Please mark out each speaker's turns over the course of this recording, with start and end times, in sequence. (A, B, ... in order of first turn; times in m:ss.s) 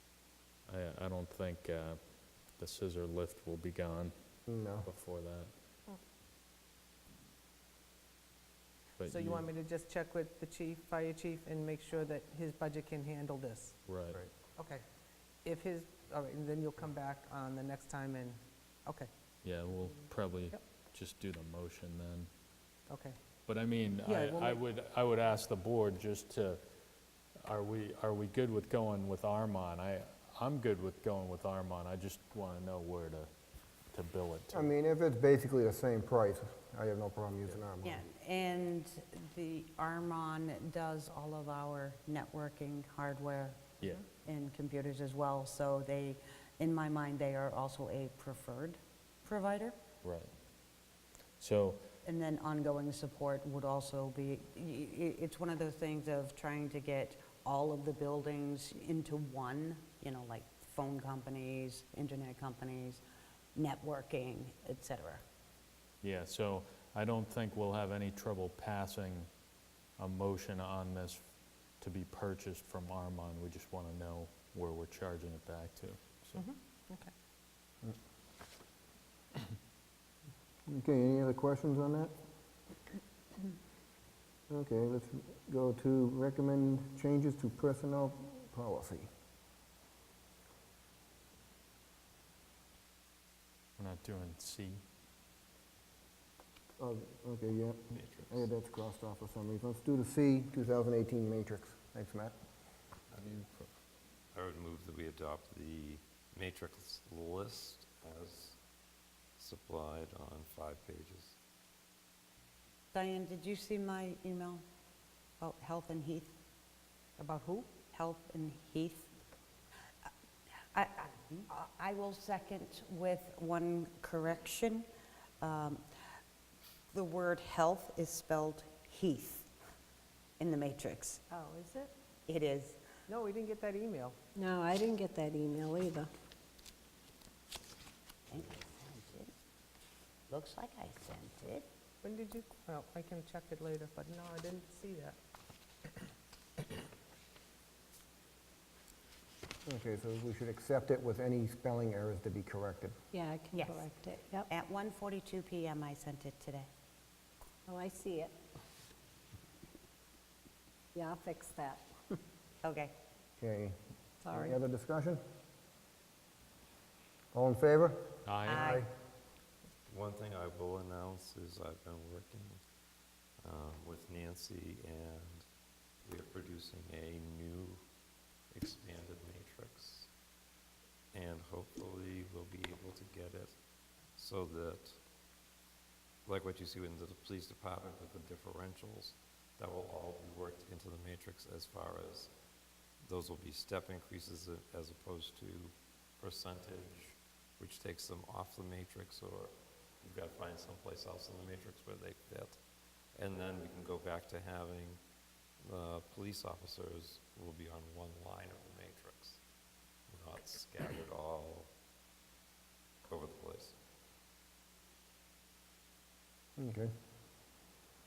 0:00.7-0:04.1 A
0:04.5-0:04.9 B
0:04.8-0:05.5 A
0:09.0-0:09.4 A
0:09.0-0:13.8 C
0:13.9-0:14.2 A
0:14.3-0:14.8 C
0:15.4-0:19.1 C
0:19.4-0:22.3 A
0:22.9-0:23.2 C
0:23.5-0:26.6 A
0:24.0-0:24.6 C
0:27.4-0:33.3 A
0:33.9-0:34.7 A
0:34.5-0:38.0 B
0:37.8-0:49.7 D
0:50.0-0:50.3 A
0:51.4-0:51.8 A
0:52.0-1:03.0 D
1:03.5-1:05.2 D
1:06.0-1:09.3 A
1:10.0-1:11.2 A
1:11.8-1:16.4 A
1:16.4-1:17.1 C
1:20.7-1:22.1 B
1:24.5-1:29.1 B
1:33.8-1:34.8 A
1:36.8-1:42.3 B
1:37.9-1:38.5 E
1:43.1-1:43.7 A
1:44.3-1:48.6 E
1:49.4-1:51.4 E
1:52.9-1:54.6 D
1:55.4-1:56.3 D
1:57.2-1:57.7 C
1:57.9-1:59.1 D
2:00.7-2:04.9 D
2:05.4-2:05.8 D
2:06.9-2:09.5 D
2:10.4-2:11.2 D
2:11.3-2:11.9 C
2:12.3-2:12.8 D
2:13.1-2:14.2 C
2:14.3-2:16.1 F
2:18.3-2:19.3 D
2:20.3-2:21.7 D
2:22.0-2:25.2 C
2:29.7-2:33.0 B
2:33.1-2:34.5 F
2:33.5-2:33.9 D
2:34.5-2:36.7 D
2:37.7-2:38.3 F
2:40.9-2:41.8 F
2:42.6-2:42.9 D
2:43.4-2:43.8 B
2:44.2-2:44.6 F
2:44.3-2:45.2 B
2:47.3-2:48.9 B
2:48.2-2:48.7 A
2:48.4-2:48.8 D
2:49.9-2:52.6 E
2:53.4-2:55.4 E
2:56.0-2:57.8 E
2:58.5-3:00.1 E
3:01.1-3:03.5 E
3:04.2-3:05.0 E
3:06.2-3:12.3 E
3:13.0-3:22.6 E
3:23.1-3:25.0 E
3:25.6-3:29.4 E
3:30.1-3:31.7 E
3:33.1-3:33.8 E
3:36.6-3:36.9 B